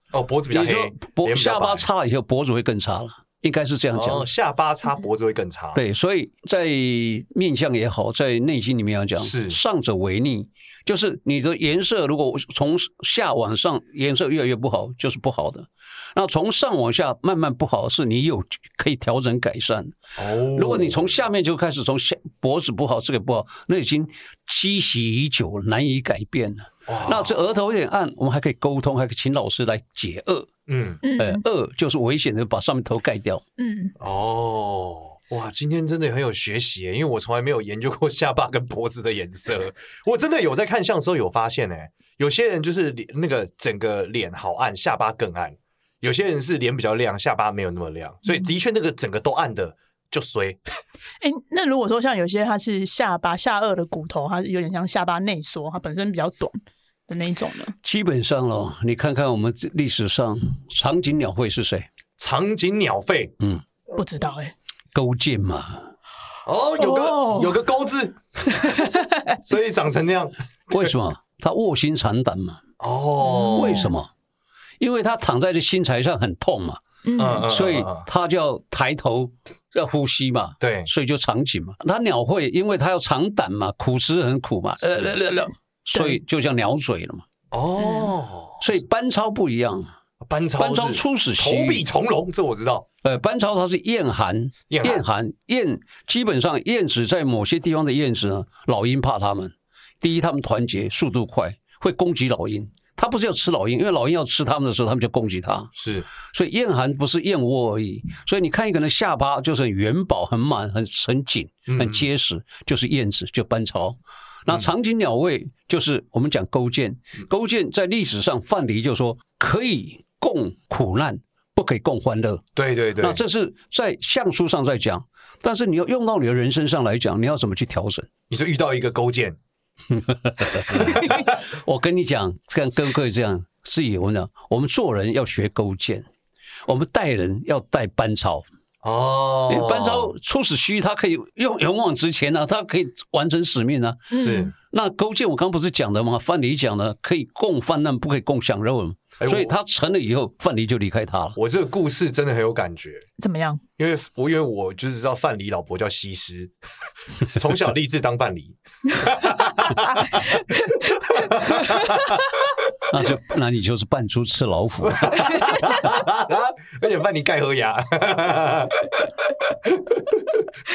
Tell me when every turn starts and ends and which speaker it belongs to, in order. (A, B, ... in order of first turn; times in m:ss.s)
0:00.1-0:01.9 A
0:00.5-0:04.3 B
0:03.9-0:05.8 A
0:05.7-0:20.0 B
0:09.2-0:09.6 A
0:20.2-0:21.2 A
0:20.5-0:30.5 B
0:26.9-0:27.4 A
0:30.7-0:31.0 A
0:31.0-0:31.4 C
0:31.2-0:33.4 B
0:33.6-0:33.9 C
0:34.0-0:50.6 A
0:51.2-0:57.7 C
0:57.8-1:01.9 B
1:02.2-1:03.3 A
1:03.9-1:04.5 C
1:04.9-1:05.9 B
1:06.4-1:08.7 A
1:06.8-1:07.5 C
1:08.6-1:09.4 C
1:09.4-1:10.9 A
1:10.7-1:12.6 B
1:12.8-1:13.9 A
1:13.2-1:13.9 C
1:13.5-1:14.1 B
1:14.8-1:16.8 B
1:17.0-1:17.4 C
1:17.2-1:18.1 A
1:17.4-1:27.2 B
1:20.6-1:20.9 A
1:25.9-1:26.2 C
1:27.5-1:28.6 A
1:27.8-1:28.1 C
1:28.6-1:29.9 B
1:30.2-1:32.8 A
1:30.6-1:31.8 B
1:33.0-1:45.7 B
1:34.7-1:35.0 A
1:45.7-1:46.0 A
1:46.2-2:02.4 B
1:51.7-1:52.1 A
2:02.6-2:03.2 A
2:03.0-2:08.1 B
2:08.3-2:09.4 A
2:09.9-2:16.1 B
2:10.7-2:11.3 A
2:16.7-2:18.4 B
2:18.8-2:20.1 A
2:19.5-2:31.4 B
2:24.1-2:24.5 C
2:24.1-2:24.5 A
2:29.2-2:29.5 A
2:31.4-2:33.0 A
2:33.2-2:33.6 C
2:33.8-2:36.5 A
2:37.2-2:42.2 A
2:41.6-2:41.9 C
2:42.9-2:45.5 B
2:44.8-2:50.5 A